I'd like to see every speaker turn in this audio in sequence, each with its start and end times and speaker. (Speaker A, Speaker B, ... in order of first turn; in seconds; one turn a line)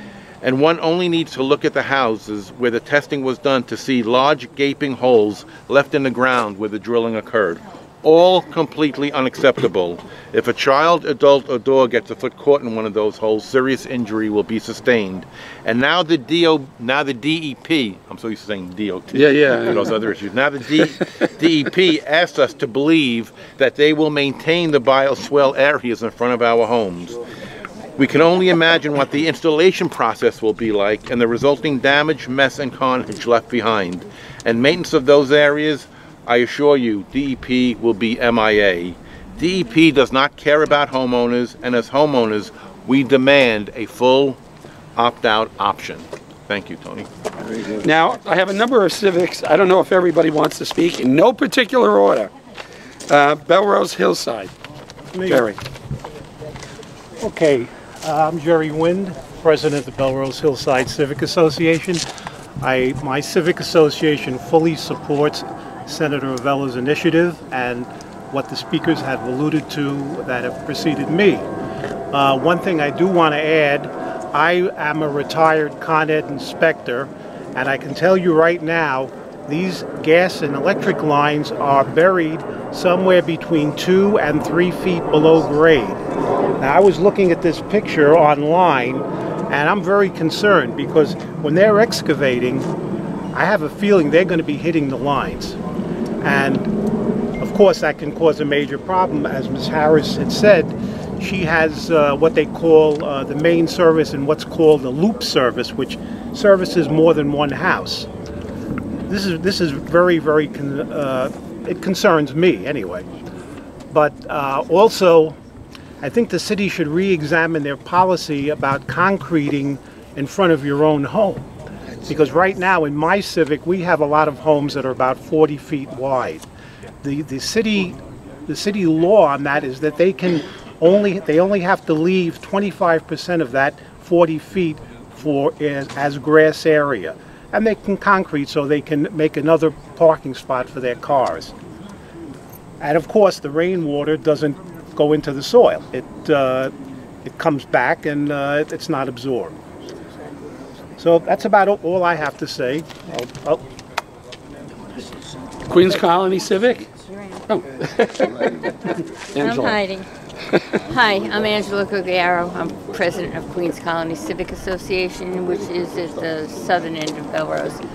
Speaker A: 0.4-27.2
Speaker B: 19.1-20.0
Speaker A: 28.0-44.4
Speaker A: 45.0-47.1
Speaker B: 47.8-52.3
Speaker B: 53.1-54.5
Speaker C: 55.1-55.5
Speaker B: 55.3-55.6
Speaker C: 57.2-62.0
Speaker C: 62.6-71.5
Speaker C: 72.1-86.0
Speaker C: 86.6-92.7
Speaker C: 93.3-95.6
Speaker C: 96.2-96.7
Speaker C: 97.4-108.1
Speaker C: 109.1-113.1
Speaker C: 113.9-115.4
Speaker C: 116.0-121.5
Speaker C: 122.0-126.5
Speaker C: 127.0-141.5
Speaker C: 142.8-146.7
Speaker C: 147.2-149.6
Speaker C: 151.0-153.6
Speaker B: 155.7-156.9
Speaker B: 157.5-158.7
Speaker B: 159.3-159.8
Speaker D: 159.4-160.1
Speaker D: 160.8-167.8